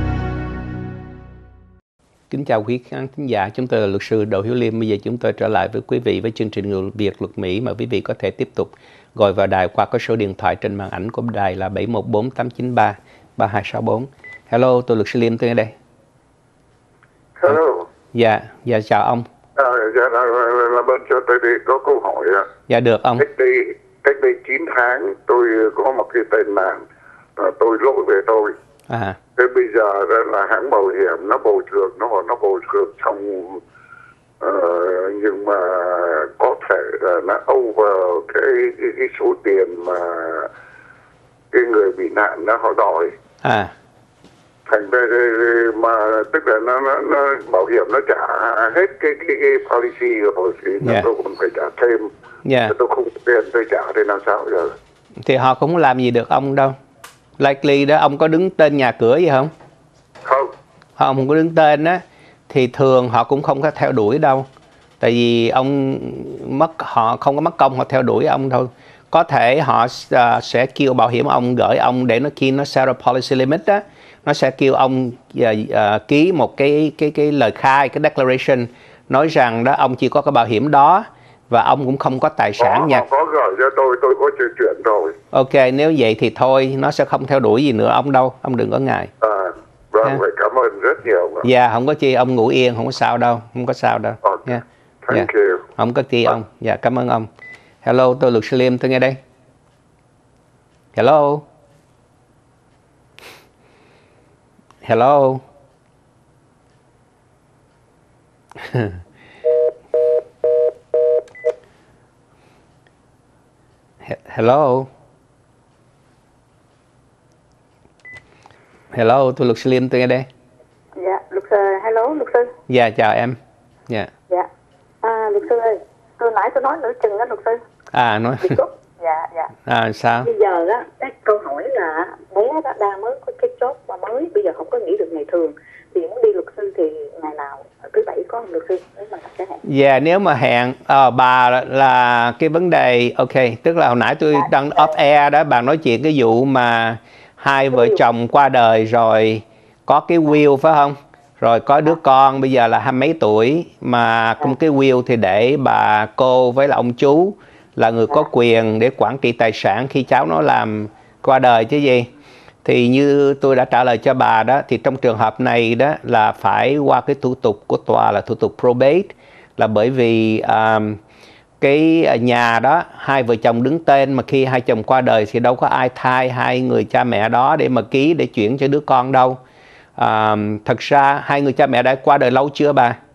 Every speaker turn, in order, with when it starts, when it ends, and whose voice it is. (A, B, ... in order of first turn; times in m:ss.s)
0:02.3-0:15.7 A
0:17.4-0:17.9 B
0:18.1-0:19.3 A
0:19.6-0:22.5 B
0:22.7-0:23.2 A
0:23.2-0:26.8 B
0:27.4-0:28.6 B
0:28.9-0:29.2 A
0:29.4-0:33.6 B
0:34.4-0:40.5 B
0:41.5-0:43.1 B
0:43.4-0:43.7 A
0:44.7-0:52.1 B
0:50.8-0:51.1 A
0:52.4-0:52.7 A
0:52.7-0:54.7 B
0:55.2-0:56.7 A
0:57.4-0:59.5 A
1:01.0-1:04.5 A
1:05.0-1:23.0 A
1:22.6-1:25.2 B
1:25.3-1:29.1 A
1:29.2-1:31.5 B
1:31.4-1:37.3 A
1:34.2-1:35.6 B
1:37.8-1:39.2 A
1:41.0-1:41.4 A
1:44.8-1:45.4 A
1:48.6-1:49.0 A
1:54.0-1:54.9 A
1:58.9-2:00.2 A
2:01.0-2:02.5 C
2:02.7-2:03.4 A
2:05.0-2:07.6 C
2:07.9-2:08.6 A
2:08.4-2:09.5 C
2:09.7-2:10.3 A
2:10.2-2:19.6 C
2:19.6-2:42.1 A
2:27.7-2:28.0 C
2:42.6-2:51.0 A
2:51.6-2:59.4 A
3:00.0-3:03.0 A